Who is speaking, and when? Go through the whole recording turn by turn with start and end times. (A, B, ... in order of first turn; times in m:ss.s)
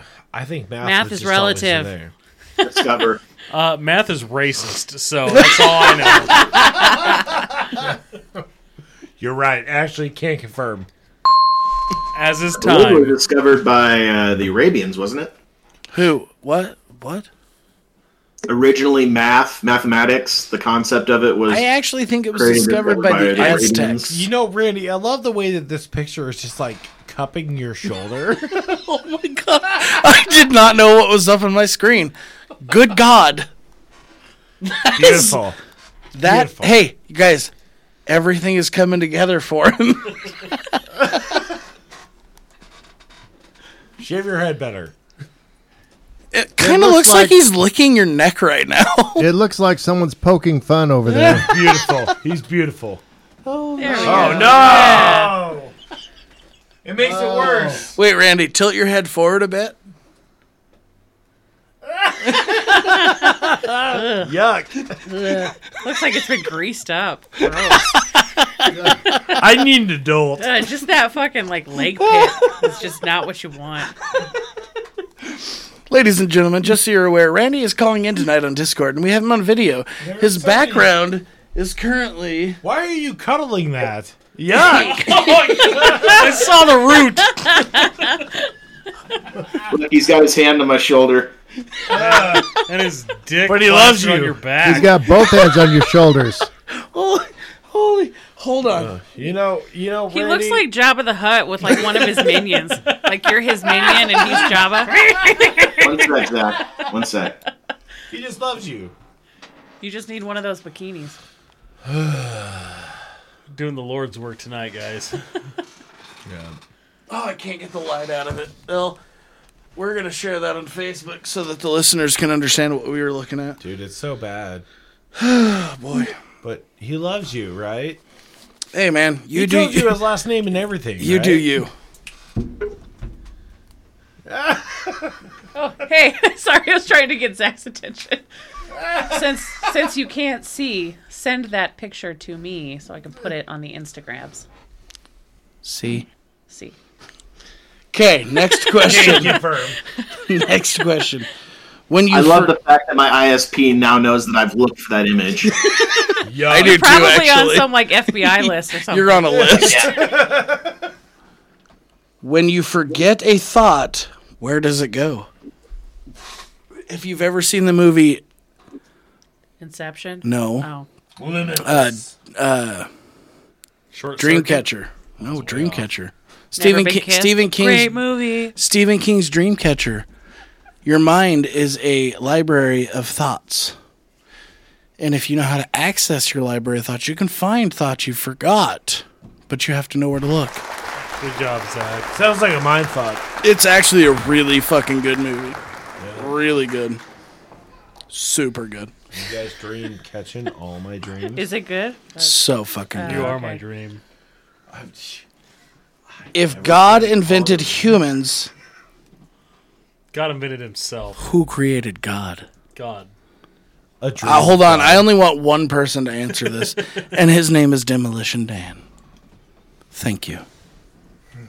0:00.3-0:02.1 A
0:00.8-0:01.9 B
0:02.6-0:03.2 C
0:03.5-0:06.7 D
0:09.2-0:10.9 A
0:12.2-0:13.2 D
0:12.6-0:15.3 C
0:15.9-0:17.3 E
0:18.5-0:21.7 C
0:21.5-0:24.1 E
0:22.3-0:24.2 C
0:24.0-0:28.5 A
0:28.5-0:33.5 E
0:34.6-0:35.4 E
0:35.0-0:35.6 A
0:36.2-0:37.5 E
0:36.2-0:36.8 A
0:38.1-0:41.3 E
0:44.0-0:44.9 A
0:46.3-0:49.3 E
0:46.6-0:47.4 F
0:49.2-0:51.5 F
0:51.1-0:55.7 A
0:51.1-0:52.1 E
0:53.5-0:55.2 E
0:53.8-0:55.4 B
0:56.8-0:58.0 A
0:57.1-0:57.6 F
0:57.7-0:59.8 E
1:02.0-1:05.0 A
1:03.9-1:04.2 B
1:05.1-1:07.9 B
1:07.5-1:07.8 A
1:08.8-1:09.3 B
1:09.3-1:10.6 A
1:10.4-1:14.0 B
1:15.3-1:22.6 E
1:20.0-1:21.0 A
1:22.6-1:26.1 A
1:24.7-1:25.6 E
1:24.9-1:28.2 D
1:27.4-1:28.3 B
1:29.7-1:31.3 C
1:31.9-1:32.6 A
1:31.9-1:35.1 D
1:33.5-1:34.4 A
1:34.6-1:36.5 F
1:36.7-1:39.0 E
1:38.7-1:40.7 A
1:40.1-1:46.0 B
1:44.3-1:45.4 A
1:45.8-1:47.4 C
1:48.1-1:48.9 A
1:49.8-1:51.2 B
1:51.9-1:52.9 A
1:53.5-1:55.2 D
1:56.3-1:56.6 A
1:57.1-1:59.0 E
1:59.8-2:03.6 E
2:03.6-2:04.6 A
2:05.2-2:06.1 E
2:06.4-2:08.0 A
2:08.7-2:10.1 E
2:09.3-2:11.5 A
2:11.0-2:11.7 E
2:14.3-2:15.2 A
2:15.5-2:18.2 B
2:19.0-2:24.5 B
2:25.6-2:26.1 E
2:26.5-2:26.8 B
2:27.9-2:29.5 E
2:28.8-2:29.8 A
2:30.3-2:31.3 E
2:31.9-2:32.6 E
2:32.1-2:35.6 C
2:36.2-2:37.0 A
2:36.5-2:40.1 E
2:36.5-2:39.7 B
2:39.3-2:40.8 A
2:39.6-2:40.0 C
2:42.2-2:45.3 E
2:46.9-2:48.2 E
2:49.6-2:50.9 B
2:50.2-2:50.7 E
2:51.2-2:52.2 A
2:51.6-2:52.9 E
2:53.9-2:54.7 D
2:54.2-3:00.1 E
2:55.2-2:55.9 D
2:56.6-2:58.6 B
3:00.8-3:03.8 E
3:05.0-3:10.6 E
3:11.2-3:12.1 D
3:12.1-3:13.3 A
3:13.4-3:15.6 E
3:16.0-3:16.3 A
3:16.2-3:17.0 E
3:18.1-3:18.9 E
3:19.1-3:21.4 A
3:21.4-3:23.6 B
3:22.2-3:23.4 E
3:23.0-3:24.0 D
3:24.7-3:25.2 A
3:26.2-3:28.0 A
3:26.3-3:28.5 E
3:30.1-3:31.2 D
3:31.2-3:32.5 E
3:32.7-3:33.1 D
3:34.0-3:35.1 A
3:34.2-3:38.8 E
3:39.9-3:40.4 E